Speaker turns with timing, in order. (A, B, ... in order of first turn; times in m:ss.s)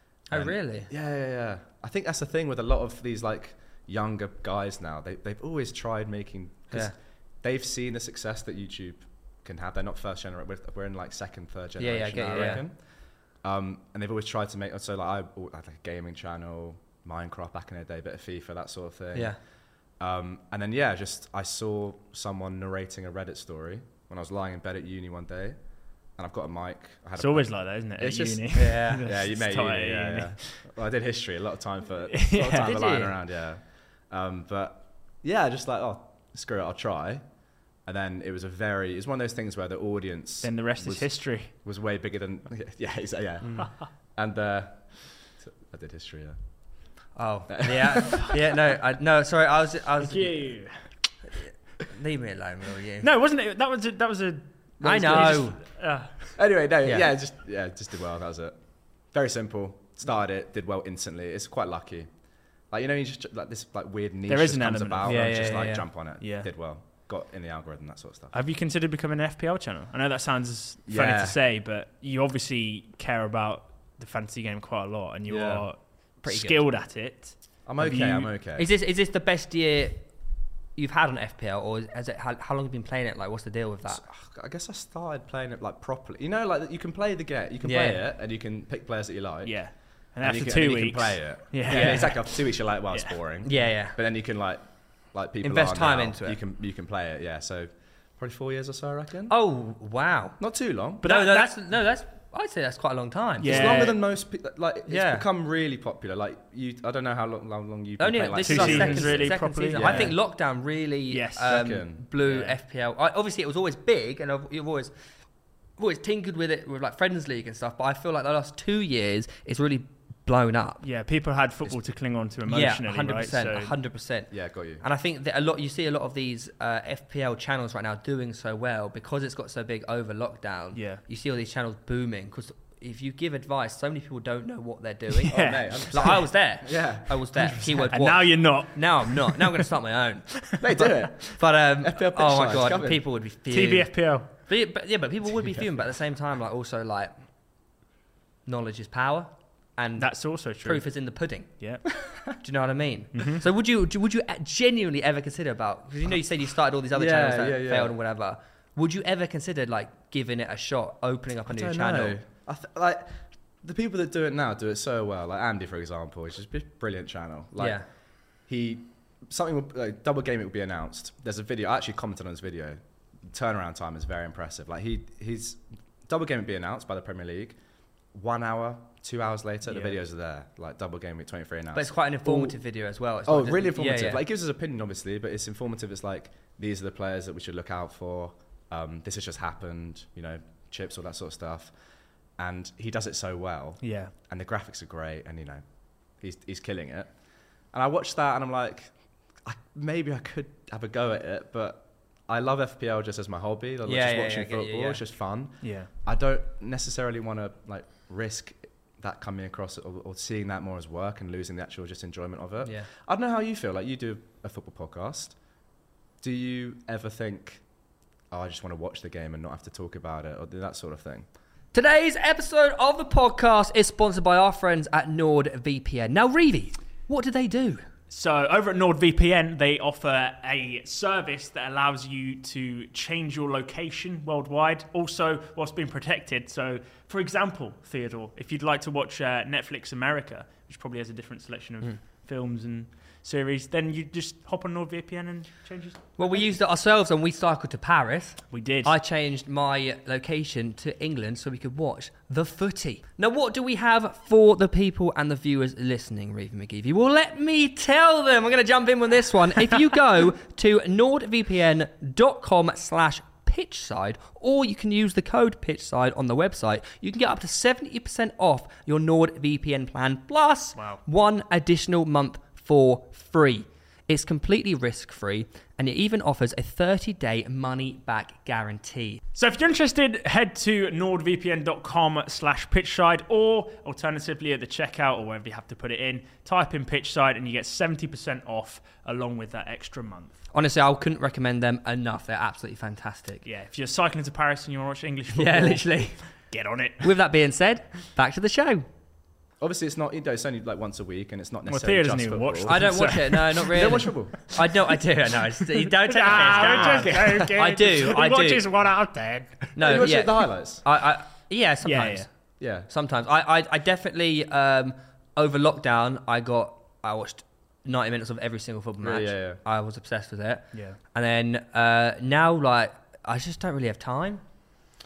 0:00.3-0:00.9 A
0:00.3-0:12.8 B
0:11.8-0:12.6 A
0:13.4-0:19.4 B
0:20.0-0:37.2 B
0:27.2-0:30.7 C
0:28.5-0:29.0 A
0:32.1-0:32.7 C
0:32.6-0:33.1 A
0:37.8-0:46.4 B
0:40.4-0:41.5 C
0:43.5-0:43.8 C
0:47.1-0:50.5 A
0:47.5-0:48.4 B
0:50.0-0:50.9 C
0:51.9-0:53.1 A
0:53.0-0:56.3 C
0:54.8-0:55.5 B
0:54.8-0:55.6 A
0:56.4-1:02.1 B
1:02.7-1:08.3 B
1:04.3-1:06.5 C
1:05.0-1:05.9 A
1:08.3-1:18.3 C
1:10.9-1:11.4 B
1:15.3-1:15.7 B
1:16.2-1:16.6 A
1:17.6-1:18.7 B
1:18.6-1:20.1 A
1:20.7-1:24.0 A
1:23.9-1:29.6 B
1:27.6-1:28.0 A
1:29.4-1:33.2 C
1:30.2-1:39.3 B
1:31.7-1:32.1 A
1:33.4-1:34.0 A
1:35.4-1:36.4 A
1:39.3-1:40.4 A
1:40.4-1:41.0 B
1:41.0-1:41.6 C
1:41.0-1:44.0 A
1:43.4-1:44.0 C
1:43.4-1:50.2 B
1:44.9-1:45.2 A
1:48.0-1:54.9 A
1:48.4-1:50.2 C
1:51.1-1:51.6 C
1:51.4-1:52.0 B
1:52.2-1:52.6 C
1:55.8-2:00.8 A
2:00.8-2:03.7 C
2:02.4-2:27.1 A
2:04.3-2:04.8 B
2:10.7-2:11.0 C
2:15.2-2:16.2 C
2:15.3-2:17.3 B
2:17.4-2:19.7 C
2:20.5-2:20.9 C
2:20.6-2:23.0 B
2:23.5-2:24.3 C
2:25.4-2:25.7 B
2:28.4-2:31.5 A
2:30.0-2:30.9 C
2:31.6-2:31.8 C
2:32.4-2:42.2 A
2:33.1-2:33.4 C
2:36.9-2:38.0 B
2:41.5-2:47.8 B
2:47.6-2:47.8 A
2:48.4-2:57.6 B
2:58.1-3:02.6 B
2:59.6-3:00.0 C
3:01.7-3:04.2 A
3:03.2-3:11.7 B
3:12.4-3:17.1 B
3:13.8-3:14.1 C
3:17.7-3:35.4 B
3:23.8-3:25.0 A
3:25.6-3:25.9 C
3:32.6-3:32.9 A
3:36.2-3:37.6 B
3:38.3-3:41.2 B
3:41.7-3:47.8 A
3:48.1-4:06.5 C
4:06.2-4:39.2 A
4:08.5-4:08.9 C
4:30.8-4:31.0 C
4:39.3-4:50.4 C
4:50.5-4:53.4 A
4:53.4-4:57.1 C
4:55.3-4:56.2 A
4:57.0-4:58.9 A
4:59.6-5:02.9 B
5:01.6-5:04.0 C
5:02.6-5:08.6 A
5:03.7-5:04.4 B
5:05.8-5:09.9 C
5:07.0-5:07.5 B
5:09.7-5:12.3 A
5:09.8-5:10.8 B
5:11.8-5:12.3 C
5:12.6-5:12.9 B
5:12.9-5:24.4 A
5:19.0-5:19.6 B
5:20.7-5:21.0 C